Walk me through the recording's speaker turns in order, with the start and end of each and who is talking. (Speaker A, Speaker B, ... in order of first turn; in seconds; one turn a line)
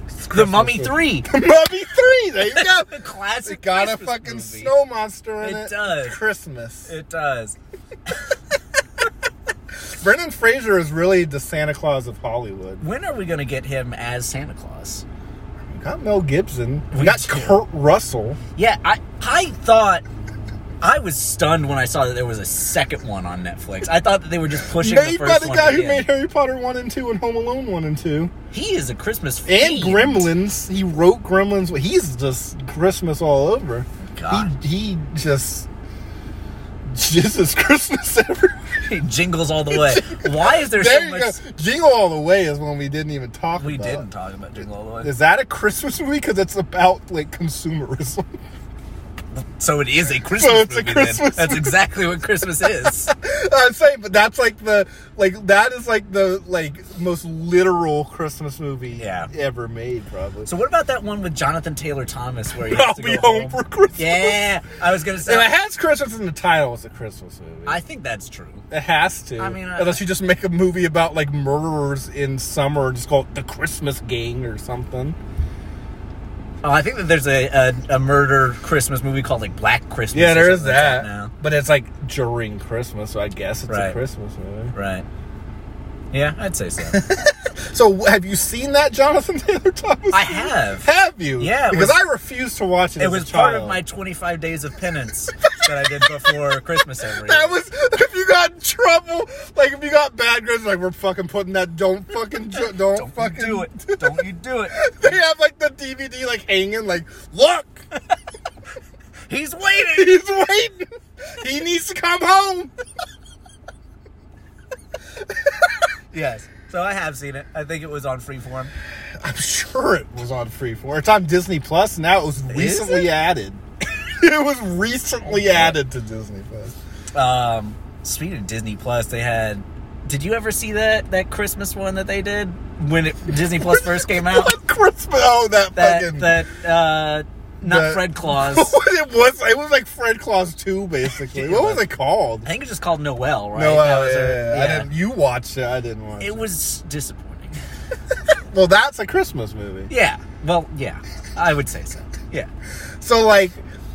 Speaker A: 0.2-6.9
Speaker B: 0.3-1.3
Speaker B: 2.5-4.7
Speaker B: 5.4-6.2
Speaker B: 6.9-8.4
Speaker A: 9.8-12.8
Speaker B: 12.8-15.1
Speaker A: 15.7-18.4
Speaker B: 16.9-17.6
Speaker B: 18.6-20.0
Speaker B: 20.8-26.1
Speaker A: 24.8-28.3
Speaker B: 28.5-30.3
Speaker A: 29.5-35.7
Speaker B: 34.0-34.5
Speaker A: 36.9-38.6
Speaker B: 38.8-41.4
Speaker A: 39.7-44.1
Speaker B: 43.5-45.1
Speaker A: 45.0-48.4
Speaker B: 49.3-53.1
Speaker A: 50.3-51.8
Speaker A: 52.9-60.5
Speaker B: 59.0-59.3
Speaker B: 60.5-65.5
Speaker A: 62.6-64.4
Speaker A: 65.2-67.8
Speaker B: 67.7-68.6
Speaker A: 68.7-75.2
Speaker B: 69.4-70.0
Speaker B: 76.6-81.3
Speaker A: 80.1-84.7
Speaker B: 83.7-84.0
Speaker B: 84.7-85.1
Speaker B: 86.1-87.0
Speaker A: 86.9-93.8
Speaker B: 90.1-92.0
Speaker B: 93.0-97.5
Speaker A: 97.2-104.2
Speaker B: 102.5-105.2
Speaker A: 104.8-107.8
Speaker B: 109.3-110.2
Speaker A: 109.9-112.7
Speaker B: 116.1-118.7
Speaker A: 119.2-126.8
Speaker B: 122.5-123.1
Speaker B: 125.3-125.8
Speaker B: 127.1-134.6
Speaker A: 133.6-136.4
Speaker B: 135.8-138.8
Speaker A: 137.6-142.5
Speaker B: 141.3-141.8
Speaker B: 142.4-144.9
Speaker A: 143.5-146.5
Speaker B: 146.2-147.6
Speaker A: 148.5-149.9
Speaker B: 149.9-152.5
Speaker A: 153.0-153.6